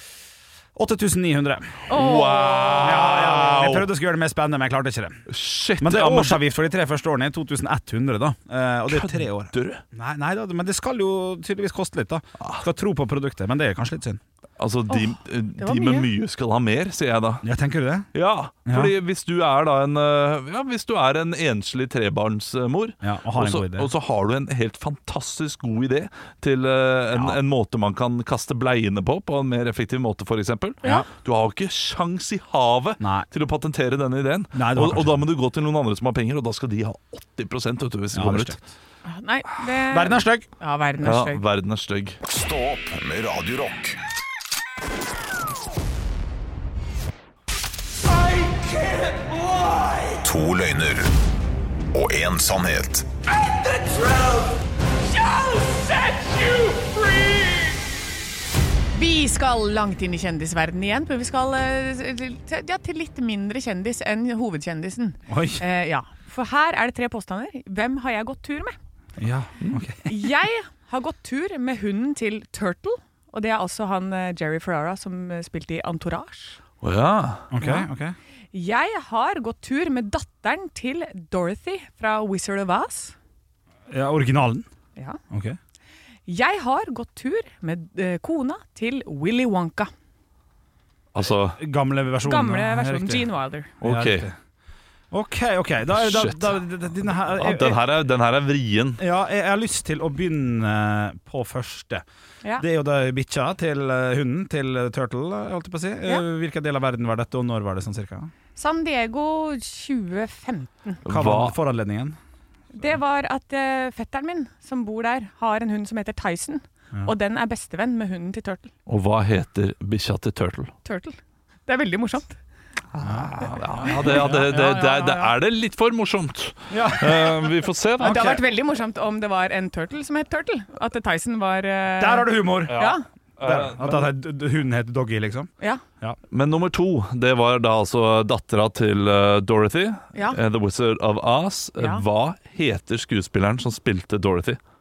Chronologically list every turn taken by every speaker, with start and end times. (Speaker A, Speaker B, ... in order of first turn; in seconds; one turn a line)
Speaker A: 0.7-1.7
Speaker B: 1.9-3.0
Speaker C: 1.9-3.9
Speaker A: 2.8-5.2
Speaker C: 5.3-6.4
Speaker A: 5.8-14.2
Speaker C: 8.9-9.8
Speaker C: 12.4-12.6
Speaker C: 14.6-17.4
Speaker B: 14.9-16.1
Speaker A: 17.4-18.1
Speaker C: 18.1-38.6
Speaker A: 18.6-18.9
Speaker A: 23.0-23.9
Speaker A: 27.1-27.4
Speaker A: 33.0-33.3
Speaker A: 34.5-35.2
Speaker A: 38.1-38.6
Speaker B: 39.0-41.4
Speaker A: 39.9-40.5
Speaker C: 41.0-42.2
Speaker D: 42.2-44.0
Speaker D: 50.2-51.1
Speaker D: 51.9-53.1
Speaker C: 56.4-56.8
Speaker B: 58.9-68.8
Speaker A: 65.3-65.6
Speaker A: 69.2-70.1
Speaker B: 70.0-76.6
Speaker C: 76.8-77.5
Speaker A: 77.5-78.1
Speaker B: 78.5-83.2
Speaker A: 83.9-84.7
Speaker A: 85.3-85.6
Speaker B: 86.2-89.9
Speaker C: 91.1-91.6
Speaker A: 91.6-94.3
Speaker B: 92.2-93.7
Speaker C: 93.8-94.3
Speaker A: 95.1-97.8
Speaker C: 95.9-96.5
Speaker C: 97.3-99.0
Speaker A: 99.0-102.0
Speaker A: 102.6-108.3
Speaker B: 108.5-111.0
Speaker C: 111.0-111.5
Speaker A: 111.1-112.2
Speaker B: 112.7-118.7
Speaker C: 118.9-120.7
Speaker B: 120.8-122.4
Speaker C: 122.9-128.4
Speaker A: 123.0-124.5
Speaker B: 123.8-125.3
Speaker A: 126.7-128.4
Speaker B: 128.0-133.0
Speaker A: 132.0-132.9
Speaker C: 132.7-134.1
Speaker A: 133.4-136.2
Speaker C: 136.3-144.6
Speaker B: 141.8-142.0